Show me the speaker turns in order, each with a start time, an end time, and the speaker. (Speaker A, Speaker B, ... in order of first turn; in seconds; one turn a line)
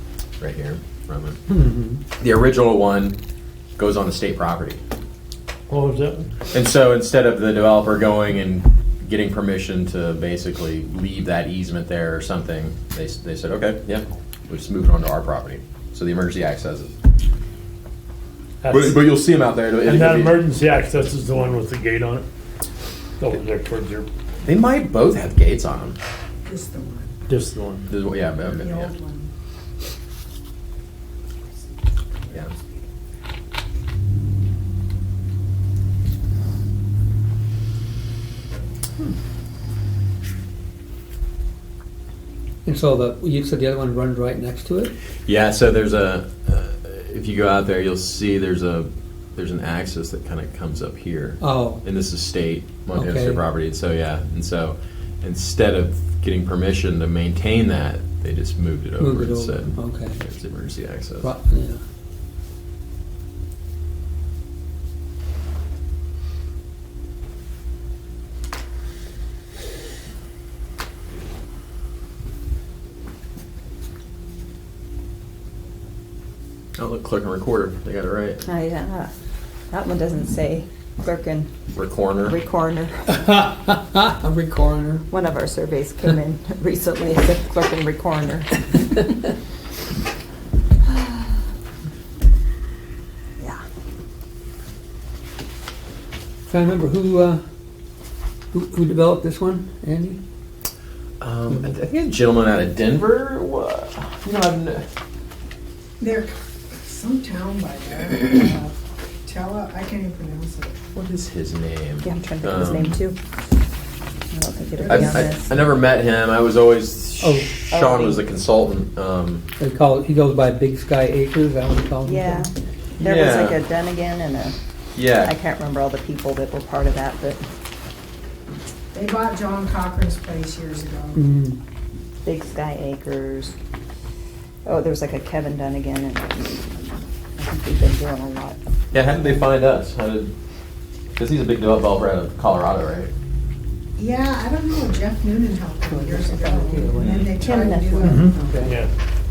Speaker A: 0.4-1.4
Speaker B: 1.5-2.0
Speaker A: 2.2-3.1
Speaker A: 3.8-4.8
Speaker C: 5.7-6.3
Speaker A: 6.5-16.9
Speaker C: 18.6-19.1
Speaker A: 18.7-20.4
Speaker C: 19.8-22.2
Speaker C: 23.2-24.1
Speaker A: 24.4-26.0
Speaker D: 26.4-27.1
Speaker C: 27.3-27.9
Speaker A: 27.9-28.9
Speaker D: 28.5-29.3
Speaker B: 42.6-44.9
Speaker A: 45.3-61.3
Speaker B: 51.4-51.8
Speaker B: 52.9-53.4
Speaker B: 59.0-60.2
Speaker B: 61.2-61.8
Speaker A: 76.8-78.4
Speaker E: 78.4-79.1
Speaker E: 79.7-81.5
Speaker A: 81.7-82.4
Speaker E: 82.2-83.1
Speaker B: 83.1-85.0
Speaker E: 85.1-89.1
Speaker E: 90.8-91.3
Speaker B: 96.5-97.4
Speaker B: 98.5-100.2
Speaker A: 101.2-104.8
Speaker D: 106.0-110.8
Speaker A: 110.9-112.9
Speaker E: 112.0-113.2
Speaker E: 114.3-115.5
Speaker D: 114.8-115.3
Speaker A: 114.9-119.4
Speaker B: 117.2-117.6
Speaker E: 117.7-118.2
Speaker B: 119.6-122.5
Speaker E: 122.0-124.5
Speaker A: 123.0-123.6
Speaker A: 125.0-125.3
Speaker E: 125.1-127.4
Speaker D: 128.9-131.2
Speaker B: 131.1-131.6
Speaker E: 132.2-133.6
Speaker E: 134.7-138.6
Speaker A: 138.9-140.3
Speaker A: 141.2-143.1
Speaker D: 143.9-148.4
Speaker B: 145.9-148.8
Speaker E: 147.4-148.2
Speaker C: 148.0-148.9